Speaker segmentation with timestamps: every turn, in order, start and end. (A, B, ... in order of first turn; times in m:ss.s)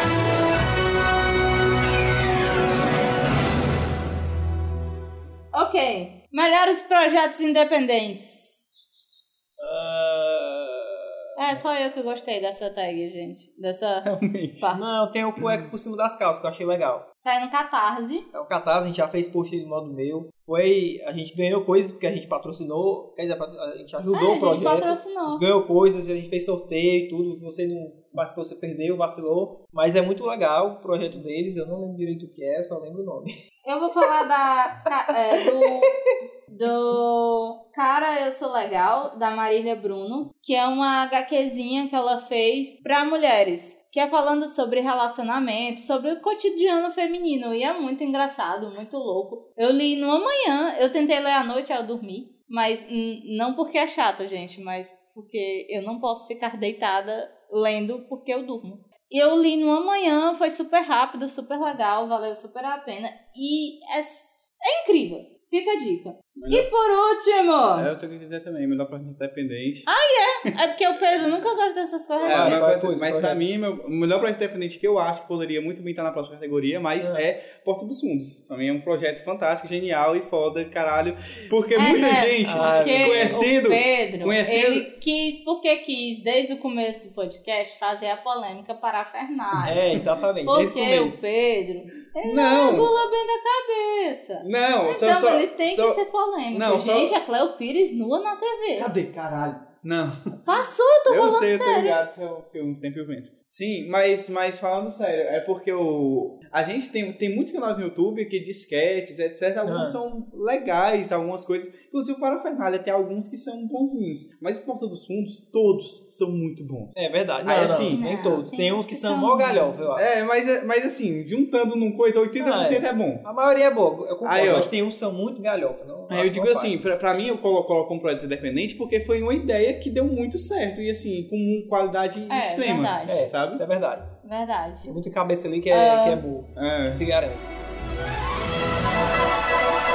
0:05.5-0:09.7 A
0:09.6-0:11.2 B
0:11.4-0:14.1 A
0:14.0-0:14.7 C
0:14.6-0:14.9 A
0:14.7-0:17.0 B
0:15.4-0:15.7 C
0:17.2-0:18.3 A
0:18.3-0:33.3 B
0:24.1-0:25.4 A
0:33.6-0:35.9 A
0:35.3-0:36.0 B
0:36.5-1:07.9 A
1:06.4-1:06.7 C
1:07.8-1:09.9 C
1:09.9-1:12.6 A
1:12.2-1:24.9 C
1:12.2-1:13.4 B
1:17.0-1:17.2 B
1:21.8-1:29.9 A
1:22.4-1:23.5 B
1:29.6-1:31.2 B
1:30.5-1:38.9 A
1:32.2-1:32.9 C
1:34.4-1:36.0 C
1:36.5-1:37.1 C
1:38.8-1:40.4 C
1:40.4-1:42.0 A
1:41.1-1:58.0 C
1:49.6-1:50.0 B
1:57.0-2:00.1 B
1:57.8-1:59.8 A
2:00.0-2:03.2 C
2:02.4-2:06.8 B
2:04.2-2:04.7 C
2:06.1-2:13.6 C
2:12.3-2:13.2 A
2:13.1-2:14.1 B
2:14.2-2:15.0 A
2:14.8-2:17.5 B
2:15.7-2:16.2 A
2:16.6-2:17.0 C